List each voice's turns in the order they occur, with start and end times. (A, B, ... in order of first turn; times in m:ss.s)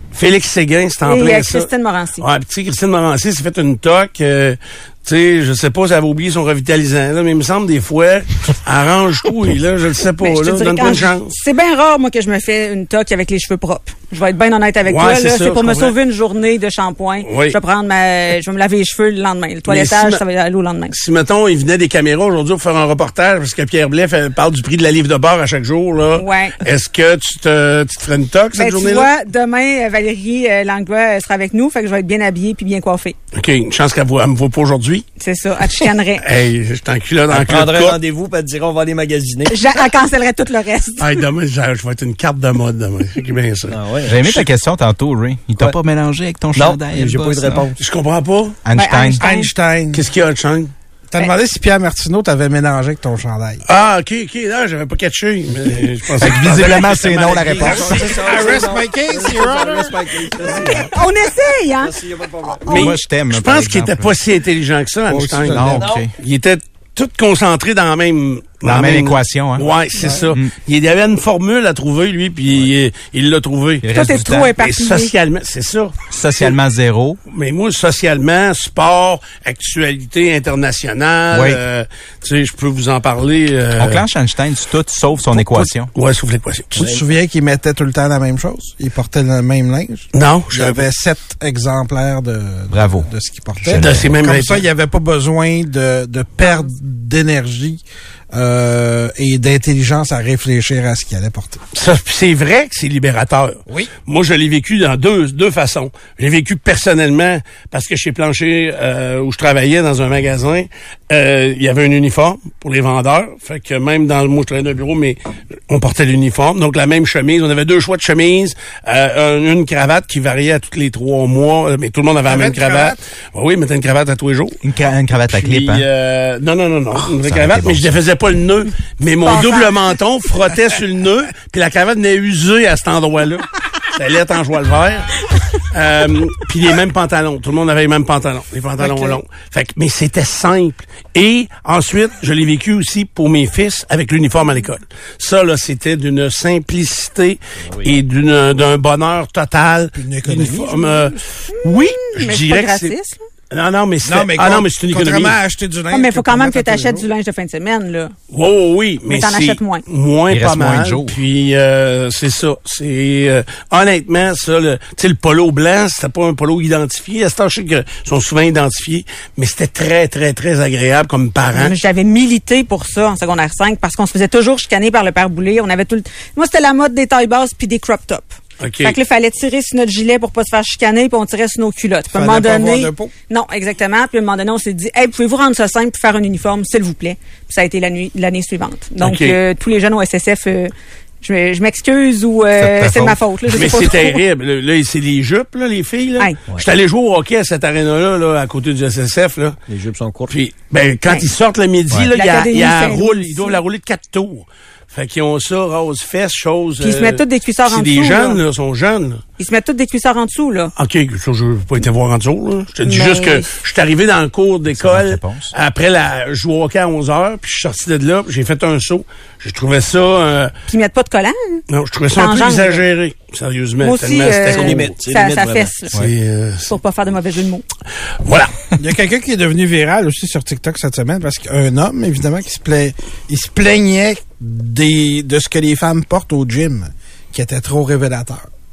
0:00.1-0:11.3 A
0:01.0-0:02.2 B
0:10.2-0:20.9 B
0:14.8-0:15.9 A
0:17.2-0:17.6 A
0:19.7-0:20.2 A
0:20.9-0:29.1 A
0:26.1-0:26.6 B
0:28.6-0:33.2 B
0:33.3-0:35.0 A
0:35.2-0:36.2 B
0:36.2-0:38.0 A
0:37.3-0:39.8 C
0:39.5-0:41.2 B
0:41.0-0:44.5 A
0:43.7-0:44.3 C
0:44.0-0:47.6 D
0:46.5-0:47.8 C
0:47.8-0:48.6 A
0:48.6-0:49.2 D
0:48.7-0:49.5 B
0:49.2-0:50.0 E
0:49.9-0:50.7 A
0:51.1-0:53.6 E
0:53.6-0:57.7 A
0:56.2-0:58.1 D
0:57.0-1:00.9 C
0:57.6-1:00.9 E
1:00.5-1:02.0 B
1:01.8-1:02.9 C
1:02.6-1:02.9 B
1:02.7-1:16.5 A
1:02.7-1:04.1 D
1:05.1-1:05.8 E
1:05.4-1:06.1 D
1:05.7-1:06.1 C
1:08.6-1:09.7 D
1:10.0-1:10.2 B
1:10.0-1:10.3 E
1:13.8-1:14.5 D
1:13.9-1:15.1 B
1:16.1-1:17.2 D
1:17.3-1:24.0 A
1:21.3-1:21.6 D
1:23.8-1:25.9 D
1:25.3-1:26.9 A
1:26.7-1:37.8 E
1:26.8-1:27.0 C
1:30.1-1:30.8 A
1:32.7-1:33.1 D
1:33.6-1:34.1 D
1:33.7-1:34.6 A
1:38.3-1:41.6 E
1:41.7-2:04.6 A
1:43.7-1:43.9 E
2:02.2-2:03.0 E
2:04.6-2:05.8 D
2:05.3-2:32.9 A
2:07.2-2:07.9 D
2:09.2-2:09.9 B
2:18.8-2:19.2 B
2:27.7-2:27.9 C
2:29.9-2:30.9 E
2:31.5-2:33.2 B
2:33.5-2:35.4 A
2:34.0-2:37.1 E
2:35.9-2:38.1 B
2:38.3-2:51.7 A
2:39.1-2:39.8 B
2:40.3-2:41.2 D
2:51.6-3:14.2 B
2:58.6-2:59.0 A
3:02.1-3:03.1 E
3:09.0-3:09.4 A
3:12.6-3:13.2 D
3:13.5-3:19.6 A
3:19.7-3:20.3 C
3:20.3-3:29.2 A
3:22.1-3:23.6 B
3:26.8-3:28.4 B
3:29.4-3:30.7 B
3:30.8-3:40.5 A
3:32.8-3:33.5 B
3:34.7-3:35.5 D
3:40.7-3:41.6 B
3:41.7-3:44.9 A
3:42.2-3:42.8 B
3:43.8-3:45.9 B
3:44.5-3:45.8 C
3:46.0-3:46.7 A
3:46.7-3:47.6 B
3:48.2-3:48.7 A
3:48.8-3:58.5 E